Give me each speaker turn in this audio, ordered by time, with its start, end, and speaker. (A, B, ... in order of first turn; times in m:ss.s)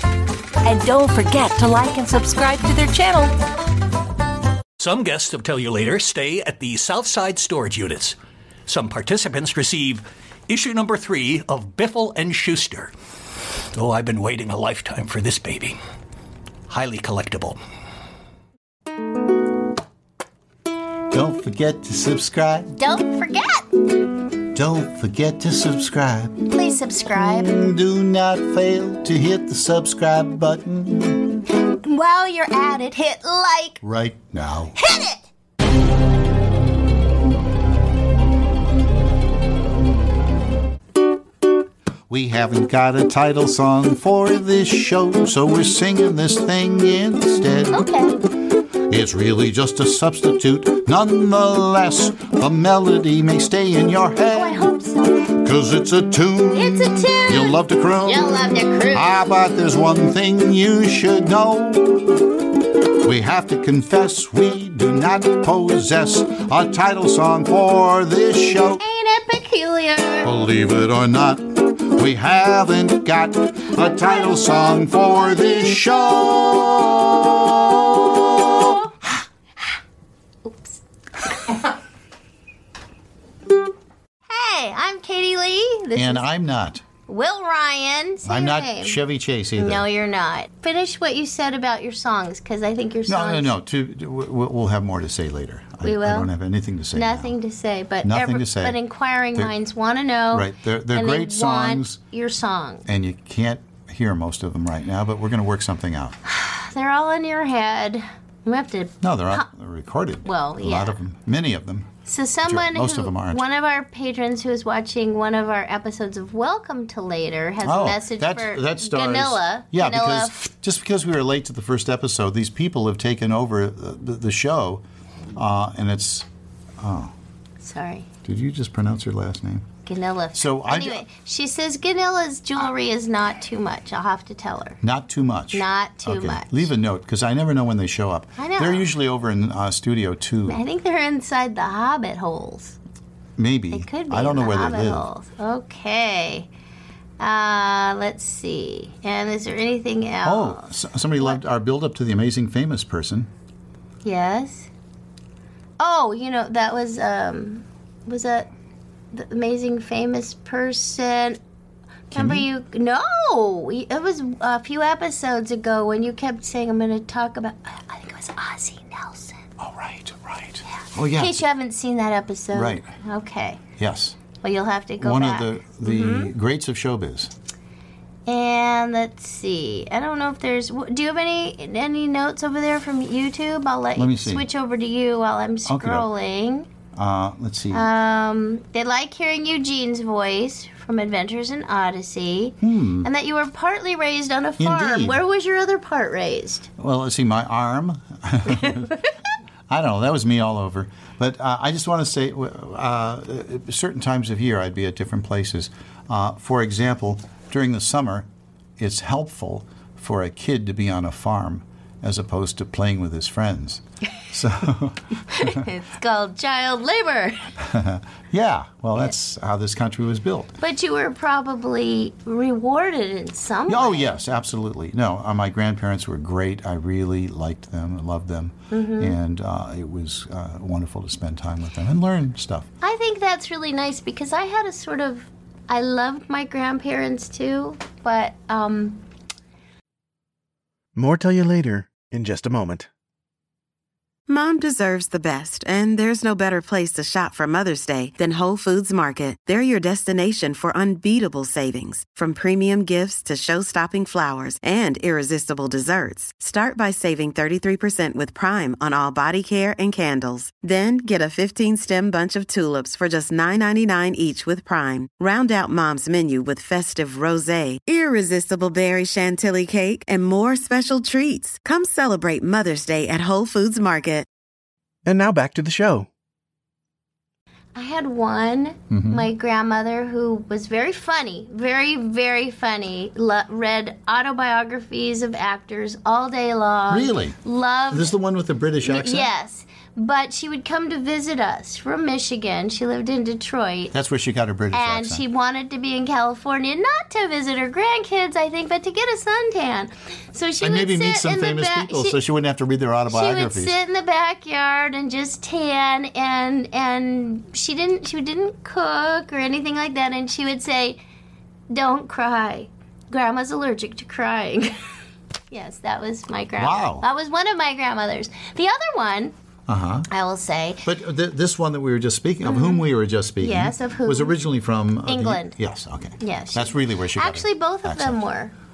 0:00.6-0:03.3 A
0:04.8-0:12.9 B
0:13.7-0:15.8 B
0:16.7-0:17.6 B
0:21.1-0:22.8 C
0:22.8-0:23.7 D
0:24.5-0:26.5 C
0:26.5-0:27.6 D
0:27.1-0:31.4 C
0:31.5-0:33.8 D
0:33.8-0:34.8 C
0:34.7-0:35.3 D
0:42.1-0:47.9 C
0:47.7-0:48.2 D
0:48.8-0:54.7 C
0:54.3-0:55.3 D
0:55.3-0:58.4 C
0:56.5-0:59.2 D
0:58.9-1:02.2 C
1:03.0-1:08.8 C
1:08.8-1:10.3 D
1:10.2-1:18.8 C
1:20.4-1:21.6 D
1:24.3-1:26.3 D
1:26.0-1:26.8 C
1:27.1-1:29.0 D
1:28.2-1:29.9 C
1:29.6-1:33.5 D
1:33.1-1:37.3 C
1:35.8-1:36.3 D
1:36.9-1:42.8 D
1:38.0-1:38.8 C
1:40.3-1:42.0 C
1:42.9-1:46.2 C
1:46.2-1:49.5 D
1:49.0-1:51.9 C
1:50.2-1:51.0 D
1:52.1-2:00.4 D
1:52.4-1:53.4 C
1:57.6-2:04.8 C
2:05.4-2:06.3 C
2:06.8-2:07.1 C
2:07.6-2:08.1 D
2:08.2-2:09.7 C
2:09.8-2:14.8 D
2:10.3-2:11.0 C
2:14.8-2:20.6 C
2:15.5-2:16.7 D
2:18.4-2:18.9 D
2:20.4-2:22.8 D
2:23.4-2:25.1 C
2:23.7-2:26.5 D
2:27.2-2:30.6 D
2:30.2-2:33.3 C
2:34.0-2:34.7 D
2:35.8-2:38.5 D
2:39.1-2:41.4 D
2:42.1-2:49.4 D
2:42.1-2:42.5 C
2:49.6-2:51.4 C
2:50.8-2:53.6 D
2:52.5-2:52.9 C
2:53.8-2:54.2 C
2:54.4-2:56.3 D
2:55.0-2:57.3 C
2:58.2-3:06.7 D
3:04.0-3:04.5 C
3:05.7-3:06.1 C
3:06.9-3:07.9 C
3:07.7-3:16.7 D
3:12.6-3:13.1 C
3:14.6-3:15.2 C
3:16.8-3:19.0 C
3:19.7-3:35.7 C
3:35.3-3:37.5 D
3:37.6-3:40.5 C
3:40.6-3:44.2 D
3:43.7-3:52.7 C
3:48.7-3:49.2 D
3:52.8-3:59.0 D
4:00.9-4:02.9 E
4:04.3-4:34.3 F
4:35.0-4:36.1 E
4:37.8-4:48.1 D
4:38.9-4:39.3 C
4:46.9-4:47.4 C
4:47.9-4:49.3 C
4:48.8-4:53.9 D
4:53.9-4:55.2 C
4:54.7-5:02.2 D
5:00.6-5:03.8 C
5:03.1-5:11.0 D
5:11.7-5:14.8 D
5:15.5-5:19.3 D
5:16.6-5:17.0 C
5:19.7-5:20.1 C
5:20.1-5:20.9 D
5:20.8-5:28.2 C
5:22.4-5:22.8 D
5:23.4-5:24.4 D
5:25.1-5:25.6 D
5:26.2-5:28.5 D